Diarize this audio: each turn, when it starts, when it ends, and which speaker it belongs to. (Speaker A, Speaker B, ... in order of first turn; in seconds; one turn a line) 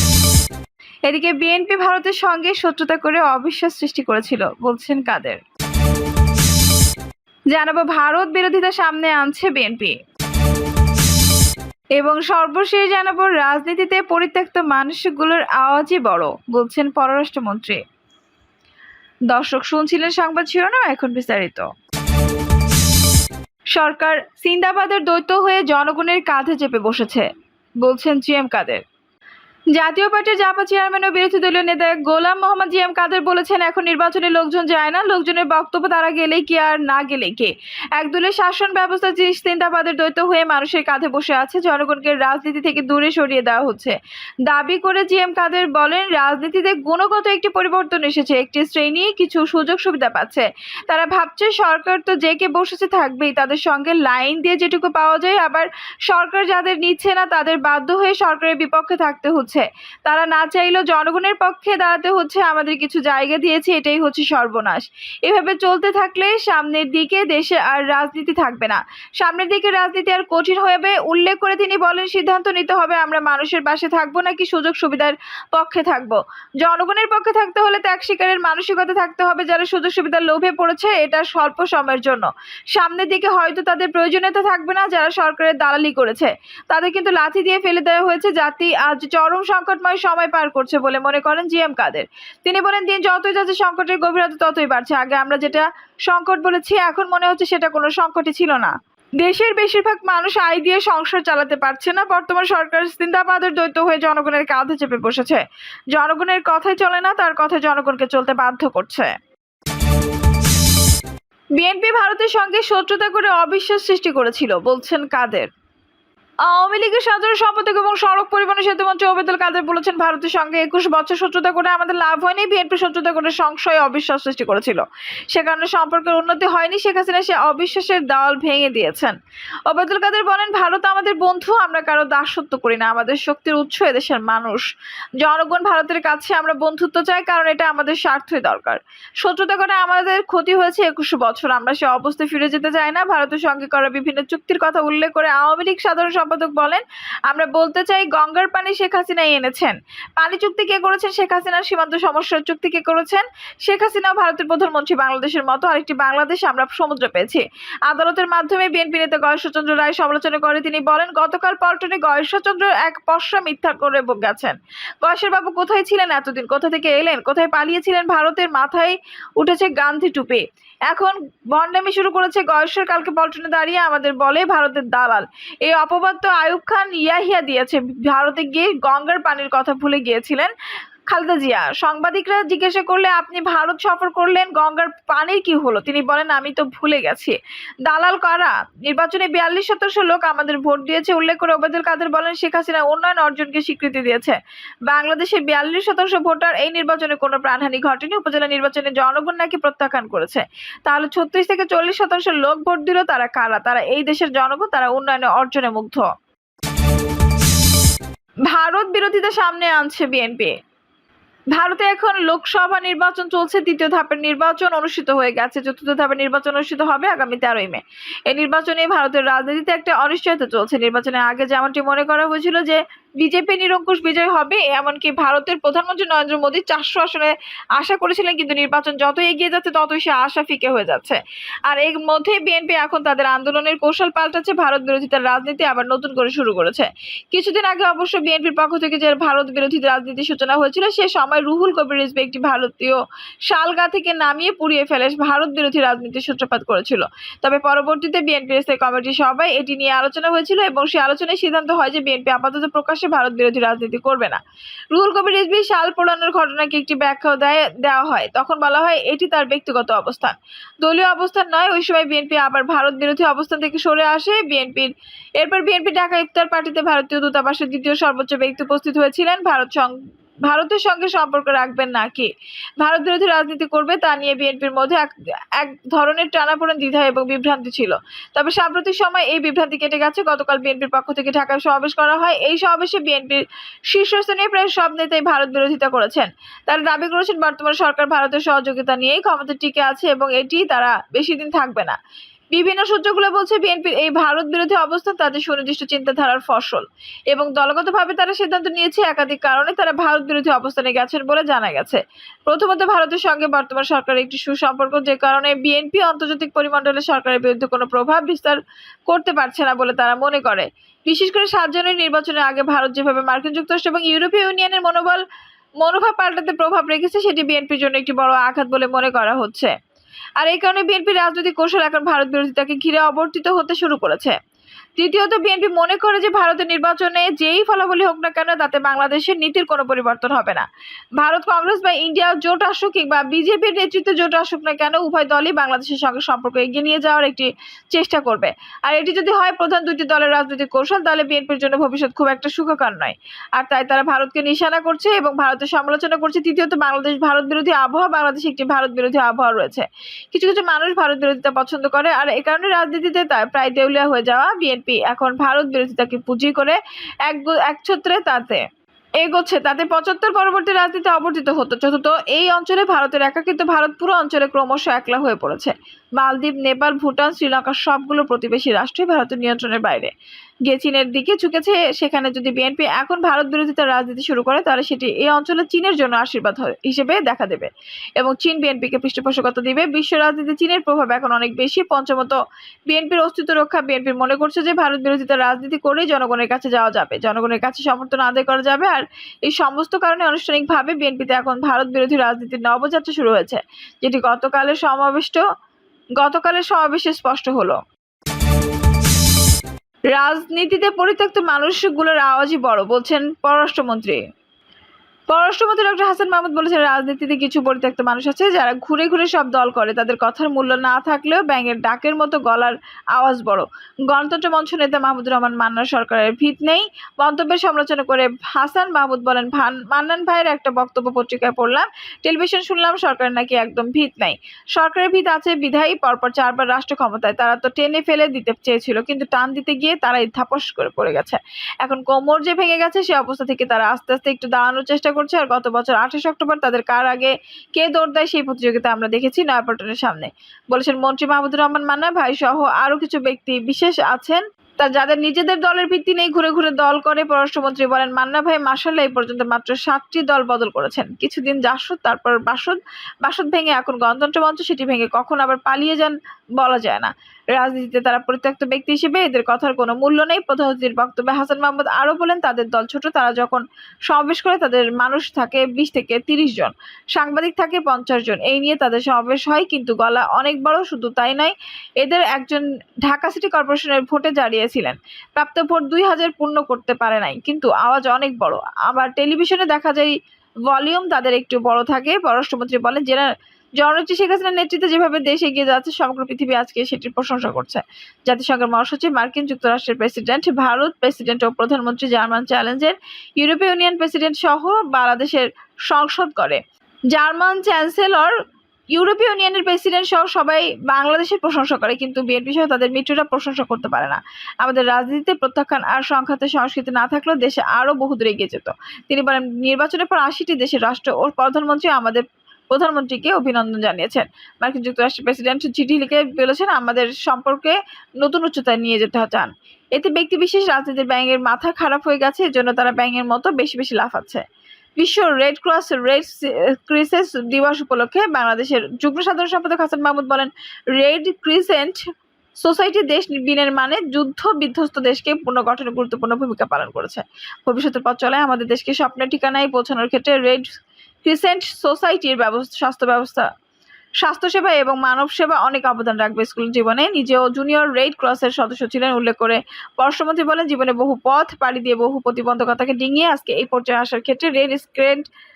Speaker A: 1.1-5.4
Speaker A: 7.5-10.0
Speaker A: 12.0-17.8
Speaker A: 19.3-21.7
Speaker A: 23.8-27.3
Speaker A: 27.8-28.8
Speaker A: 29.7-105.4
Speaker A: 106.0-109.1
Speaker A: 111.6-115.5
Speaker A: 116.5-134.7
Speaker A: 135.2-180.5
Speaker A: 181.1-206.1
Speaker A: 208.5-210.6
Speaker A: 211.6-254.4
Speaker A: 254.9-269.9
Speaker A: 270.5-292.0
Speaker A: 292.5-315.2
Speaker A: 315.8-319.7
Speaker A: 320.4-324.4
Speaker A: 325.0-358.6
Speaker A: 359.2-370.1
Speaker A: 370.7-395.4
Speaker A: 396.2-397.8
Speaker A: 400.1-404.2
Speaker A: 405.3-480.2
Speaker A: 480.7-496.6
Speaker A: 497.1-498.3
Speaker A: 498.9-524.4
Speaker A: 525.0-532.0
Speaker A: 532.6-540.7
Speaker A: 541.2-543.5
Speaker A: 544.2-555.3